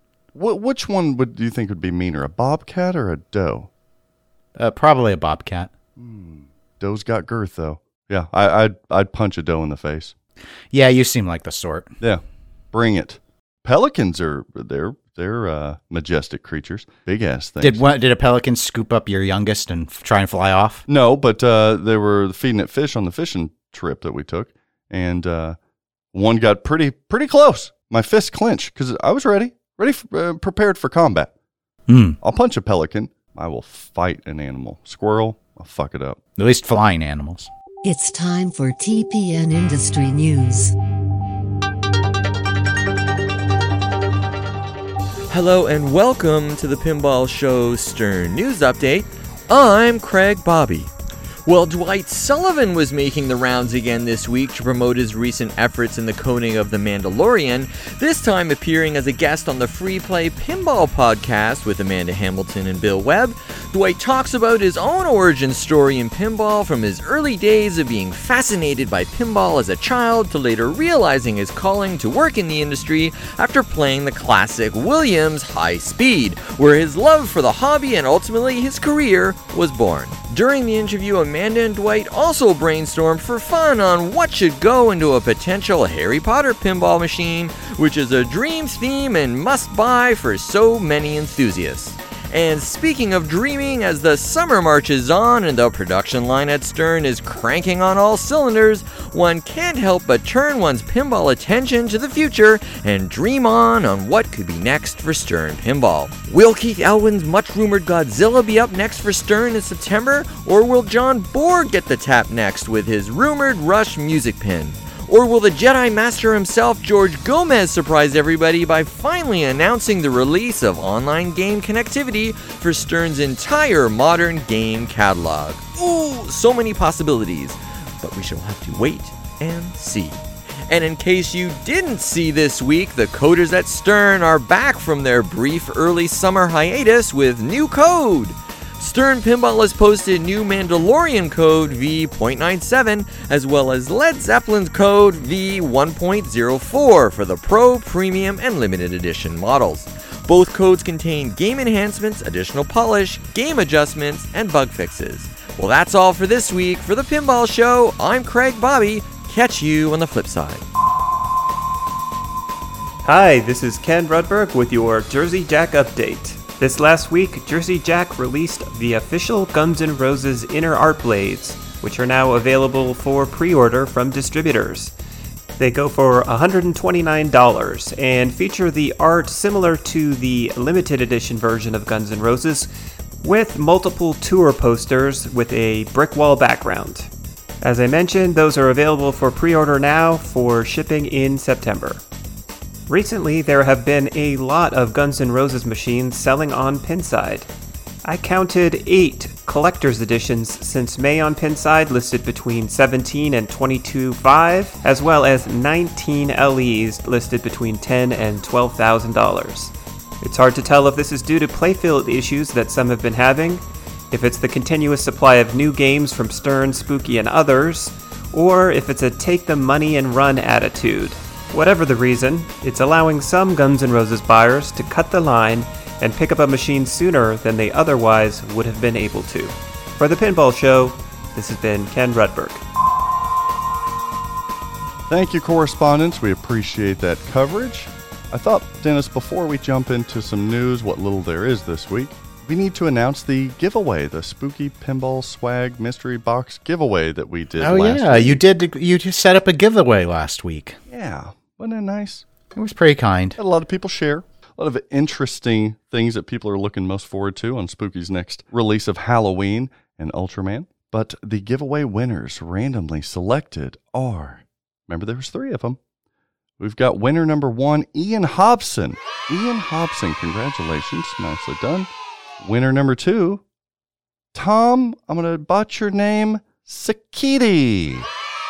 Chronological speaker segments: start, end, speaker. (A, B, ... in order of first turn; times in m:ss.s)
0:00.3-0:03.7 A
0:04.6-0:05.7 B
0:06.0-0:10.2 A
0:10.7-0:11.9 B
0:12.0-0:17.8 A
0:17.6-0:20.8 B
0:20.9-0:25.6 A
0:26.1-0:31.3 A
0:31.9-0:32.2 B
0:32.2-0:36.2 A
0:36.4-0:37.5 B
0:37.8-0:40.7 C
0:45.3-0:50.9 D
0:51.4-2:40.7 D
2:43.0-2:54.9 E
2:55.6-3:07.1 E
3:07.6-3:12.0 E
3:12.9-3:17.5 E
3:18.0-3:52.6 E
3:55.1-4:08.4 A
4:07.6-4:10.8 B
4:10.9-4:12.2 A
4:12.6-4:13.4 B
4:13.4-4:25.8 A
4:26.6-4:33.4 A
4:34.3-4:38.1 A